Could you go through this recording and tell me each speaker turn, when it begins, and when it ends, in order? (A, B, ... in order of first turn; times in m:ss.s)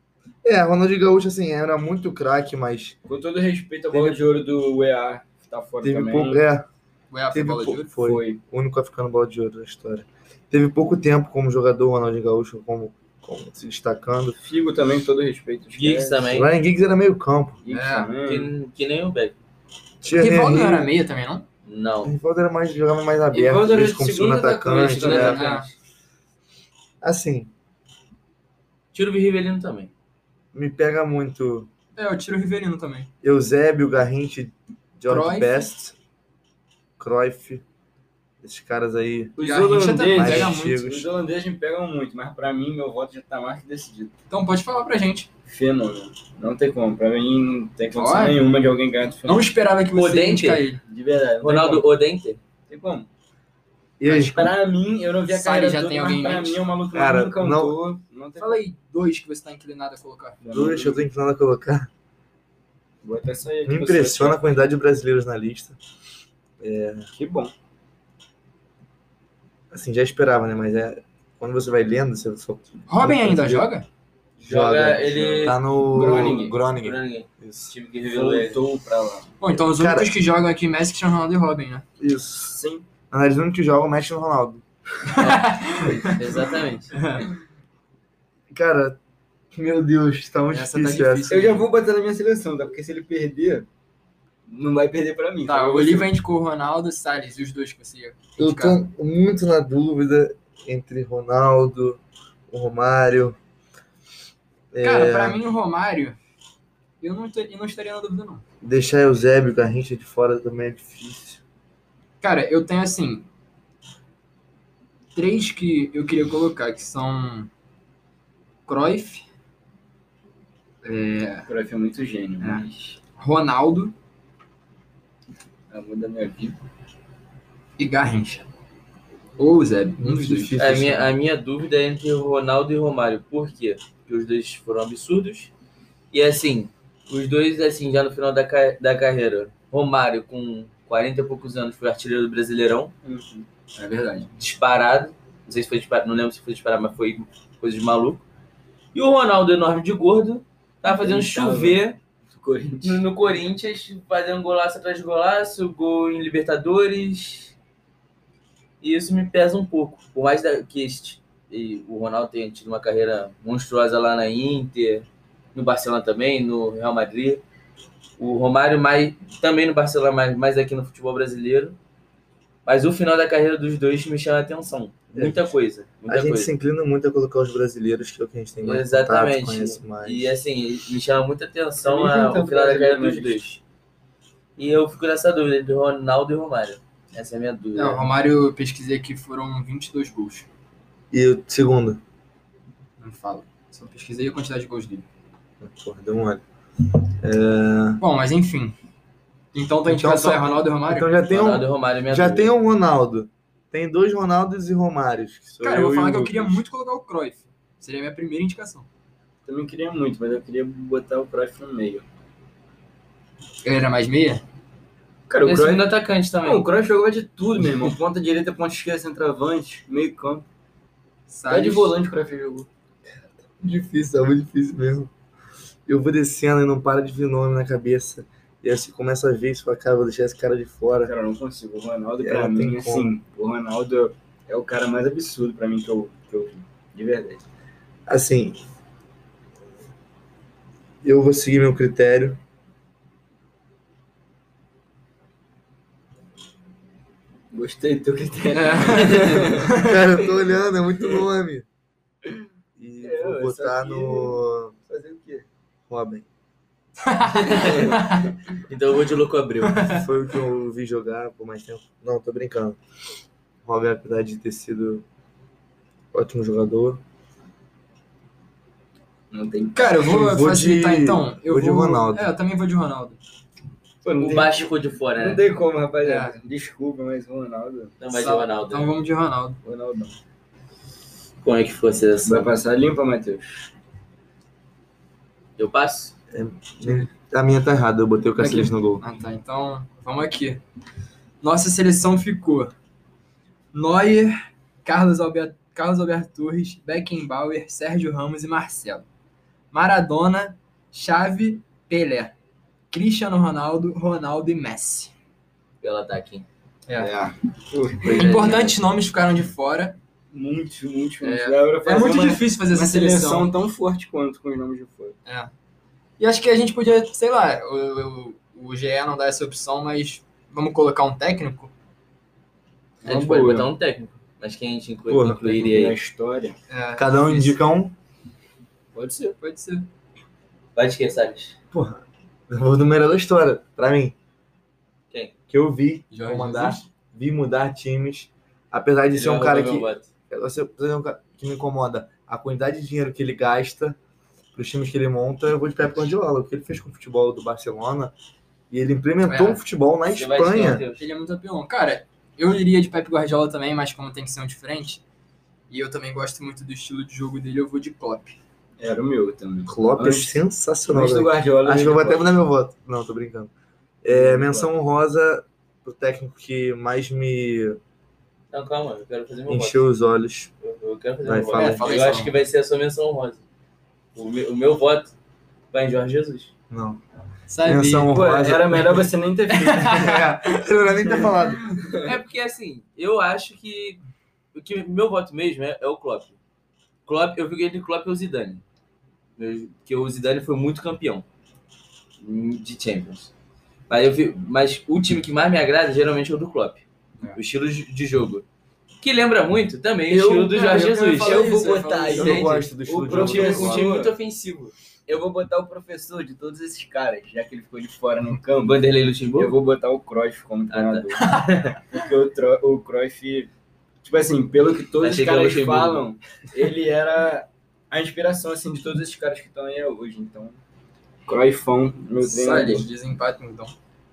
0:00.4-0:03.0 A
0:03.1-0:06.4 B
0:03.9-0:04.2 A
0:05.8-0:06.7 A
0:07.1-0:07.9 C
0:07.3-0:14.4 A
0:08.0-0:08.4 B
0:14.4-0:16.2 B
0:15.7-0:16.5 D
0:16.3-0:17.6 A
0:17.6-0:18.5 B
0:17.7-0:18.1 C
0:18.2-0:19.4 D
0:20.0-0:20.9 A
0:20.1-0:21.4 C
0:21.7-0:22.1 D
0:22.0-0:25.5 A
0:23.3-0:25.6 B
0:25.0-0:25.7 D
0:25.0-0:25.7 C
0:27.0-0:27.5 A
0:28.9-0:29.9 D
0:30.5-0:31.7 A
0:32.0-0:33.1 C
0:33.2-0:35.9 A
0:35.1-0:35.7 C
0:37.0-0:37.6 A
0:38.4-0:39.4 A
0:39.4-0:44.2 B
0:39.4-0:40.8 C
0:40.0-0:41.1 A
0:44.3-0:45.3 C
0:45.5-0:49.5 B
0:47.9-0:48.4 C
0:49.2-0:50.8 C
0:50.0-0:50.7 D
0:50.9-0:51.9 B
0:51.4-0:52.4 D
0:52.7-0:53.1 B
0:54.0-0:54.6 A
0:54.0-0:58.6 B
0:55.3-0:56.6 C
0:56.9-0:57.8 A
0:58.4-1:00.4 C
1:00.4-1:01.0 B
1:00.5-1:01.9 A
1:03.0-1:04.4 B
1:03.6-1:05.8 A
1:06.6-1:07.1 A
1:07.2-1:07.5 B
1:09.7-1:13.7 A
1:12.9-1:13.9 C
1:14.4-1:18.6 D
1:14.4-1:17.7 A
1:15.0-1:16.6 B
1:18.1-1:19.4 B
1:19.4-1:21.8 C
1:19.7-1:20.2 A
1:22.0-1:22.5 A
1:22.4-1:22.9 B
1:23.1-1:24.6 A
1:25.1-1:26.2 C
1:25.2-1:26.9 D
1:28.5-1:29.0 A
1:29.5-1:31.3 A
1:30.5-1:31.7 C
1:31.3-1:33.7 B
1:34.5-1:36.1 B
1:35.5-1:38.8 C
1:38.4-1:43.4 A
1:44.7-1:45.4 A
1:44.8-1:46.2 C
1:47.0-1:48.4 C
1:48.6-1:51.4 A
1:52.2-1:53.3 C
1:55.2-1:57.5 C
1:58.7-1:59.2 C
2:00.8-2:01.5 C
2:01.5-2:03.0 B
2:03.2-2:03.9 C
2:05.7-2:06.6 B
2:07.8-2:08.5 C
2:09.4-2:10.6 C
2:10.0-2:11.1 A
2:10.6-2:15.5 D
2:16.1-2:22.9 D
2:23.0-2:24.3 B
2:24.4-2:28.2 D
2:28.9-2:32.0 D
2:30.9-2:33.0 B
2:32.8-2:37.6 D
2:38.8-2:47.4 D
2:48.2-2:51.8 D
2:52.7-2:56.5 D
2:55.1-2:55.5 A
2:56.1-3:00.3 A
2:58.6-3:03.6 D
3:01.8-3:03.5 B
3:04.6-3:08.1 D
3:07.8-3:10.5 C
3:11.1-3:12.0 A
3:13.0-3:15.0 C
3:15.6-3:16.4 A
3:17.2-3:18.0 A
3:18.0-3:18.8 C
3:19.5-3:21.1 C
3:19.9-3:26.6 A
3:21.3-3:22.5 D
3:25.6-3:28.9 C
3:29.4-3:32.1 B
3:33.6-3:34.4 C
3:35.3-3:35.9 B
3:35.4-3:36.6 D
3:36.4-3:40.5 B
3:41.3-3:42.0 C
3:41.5-3:42.7 B
3:43.4-3:45.1 A
3:45.9-3:51.1 A
3:51.0-3:57.4 B
3:52.2-3:53.1 A
3:58.1-3:58.6 A
4:01.0-4:02.4 A
4:07.5-4:10.3 B
4:08.5-4:10.0 C
4:09.8-4:11.7 A
4:12.8-4:14.8 A
4:13.0-4:15.5 B
4:15.9-4:16.2 A
4:17.0-4:18.3 C
4:17.4-4:17.8 D
4:17.4-4:18.3 B
4:18.7-4:19.9 D
4:19.6-4:20.0 C
4:19.9-4:22.8 A
4:23.6-4:25.0 A
4:26.1-4:27.0 A
4:29.3-4:29.9 B
4:29.7-4:33.2 C
4:30.0-4:32.3 A
4:34.0-4:38.0 B
4:34.2-4:35.4 D
4:36.0-4:36.4 C
4:38.0-4:38.9 D
4:38.1-4:39.6 C
4:39.6-4:40.2 B
4:41.4-4:42.5 D
4:42.2-4:43.7 B
4:45.6-4:46.1 D
4:46.3-4:49.0 A
4:48.4-4:50.6 C
4:51.4-4:52.7 C
4:53.7-4:59.0 C
4:59.7-5:02.3 C
5:02.9-5:05.1 C
5:05.8-5:06.5 D
5:06.9-5:07.1 C
5:07.0-5:08.5 B
5:08.0-5:08.8 D
5:08.0-5:10.0 C
5:10.3-5:15.2 B
5:11.2-5:13.5 C
5:15.3-5:15.5 C
5:16.2-5:21.7 C
5:23.0-5:23.7 B
5:23.0-5:26.0 D
5:25.1-5:25.4 A
5:25.4-5:26.6 B
5:26.7-5:27.6 C
5:27.0-5:27.9 A
5:29.0-5:29.3 B
5:29.0-5:29.9 C
5:30.8-5:31.6 D
5:31.7-5:34.2 A
5:35.5-5:44.0 A
5:36.1-5:36.8 C
5:39.1-5:40.1 D
5:44.5-5:48.1 A
5:48.7-5:50.8 A
5:49.2-5:49.6 C
5:50.1-5:51.1 D
5:51.0-5:55.0 C
5:55.7-5:58.4 C
5:58.8-6:02.3 B
5:59.6-6:03.5 A
6:04.0-6:07.8 A
6:04.1-6:04.7 B
6:08.5-6:09.8 D
6:09.5-6:10.5 A
6:10.6-6:13.4 D
6:11.2-6:11.9 A
6:11.5-6:12.4 C
6:14.2-6:15.1 D
6:15.7-6:16.5 D
6:16.7-6:17.0 A
6:17.5-6:18.1 C
6:17.6-6:19.1 A
6:18.1-6:20.3 B
6:19.5-6:20.3 C
6:19.9-6:21.7 A
6:21.1-6:22.1 B
6:22.0-6:24.0 D
6:24.5-6:26.4 D
6:27.1-6:28.6 D
6:29.4-6:31.2 D
6:32.2-6:33.3 D
6:33.9-6:36.8 D
6:37.4-6:38.4 D
6:39.0-6:44.7 D
6:40.1-6:44.2 B
6:40.6-6:42.6 C
6:42.1-6:43.9 A
6:45.1-6:48.8 B
6:48.6-6:49.6 D
6:49.4-6:53.5 B
6:50.7-6:51.6 D
6:51.2-6:51.7 C
6:54.0-7:00.6 B
6:55.0-6:56.0 D
7:01.3-7:02.9 B
7:02.2-7:03.7 C